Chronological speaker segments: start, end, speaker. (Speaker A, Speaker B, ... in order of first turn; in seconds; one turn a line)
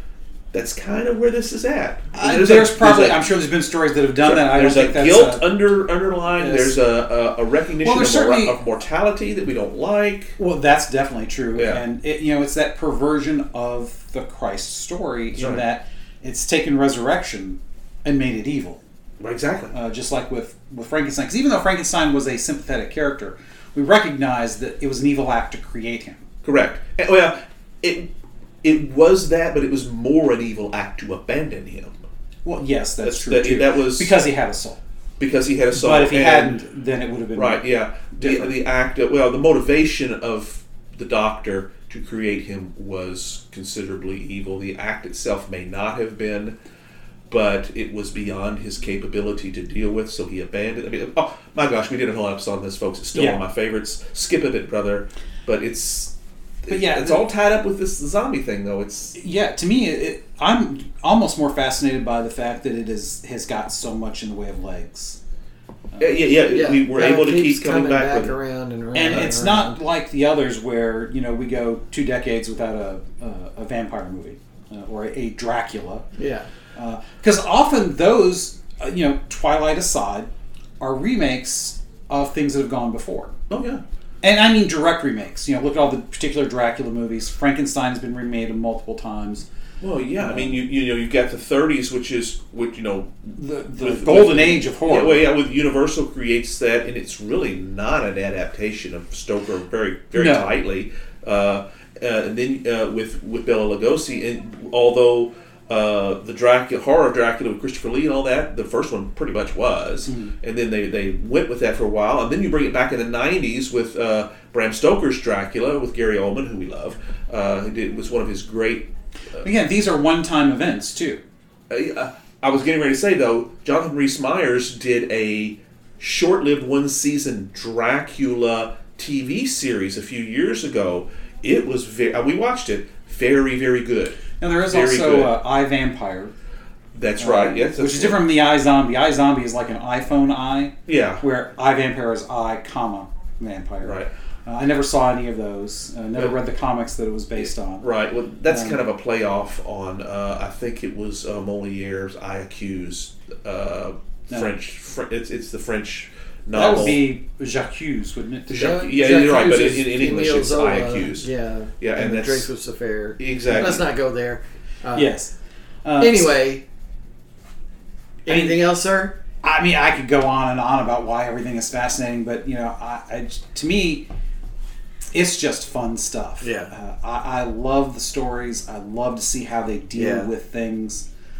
Speaker A: 0.5-3.2
Speaker B: 2.1-5.5
Speaker A: 4.2-10.4
Speaker B: 6.3-6.8
Speaker B: 7.8-8.6
Speaker B: 10.4-18.8
Speaker A: 11.5-11.8
Speaker A: 15.3-15.6
Speaker A: 19.2-19.7
Speaker B: 19.7-26.2
Speaker A: 26.4-28.1
Speaker A: 28.6-31.9
Speaker B: 32.4-34.8
Speaker A: 33.0-34.1
Speaker A: 35.2-36.5
Speaker B: 35.7-38.5
Speaker A: 37.3-46.5
Speaker A: 47.3-59.2
Speaker B: 53.1-53.4
Speaker B: 56.7-57.2
Speaker B: 59.2-65.2
Speaker B: 65.9-66.2
Speaker A: 66.0-68.3
Speaker C: 66.5-69.8
Speaker B: 68.9-76.0
Speaker C: 76.2-76.5
Speaker B: 76.7-80.3
Speaker B: 80.8-83.3
Speaker A: 83.5-83.8
Speaker B: 84.2-89.4
Speaker A: 89.8-119.4
Speaker B: 90.2-90.6
Speaker B: 93.4-95.3
Speaker B: 100.1-100.5
Speaker B: 110.1-110.3
Speaker B: 119.4-121.2
Speaker A: 121.7-135.3
Speaker B: 134.4-136.3
Speaker A: 136.9-138.2
Speaker B: 137.2-147.9
Speaker A: 140.9-141.2
Speaker A: 143.8-144.1
Speaker A: 147.8-157.0
Speaker B: 148.5-148.8
Speaker B: 156.5-158.6
Speaker A: 158.5-161.3
Speaker C: 158.5-165.1
Speaker A: 161.8-162.5
Speaker A: 163.2-163.8
Speaker B: 164.9-165.3
Speaker B: 165.8-166.3
Speaker C: 166.0-166.6
Speaker C: 168.2-169.2
Speaker B: 168.3-168.6
Speaker B: 169.4-174.1
Speaker B: 175.1-181.1
Speaker C: 176.4-176.7
Speaker C: 179.9-180.3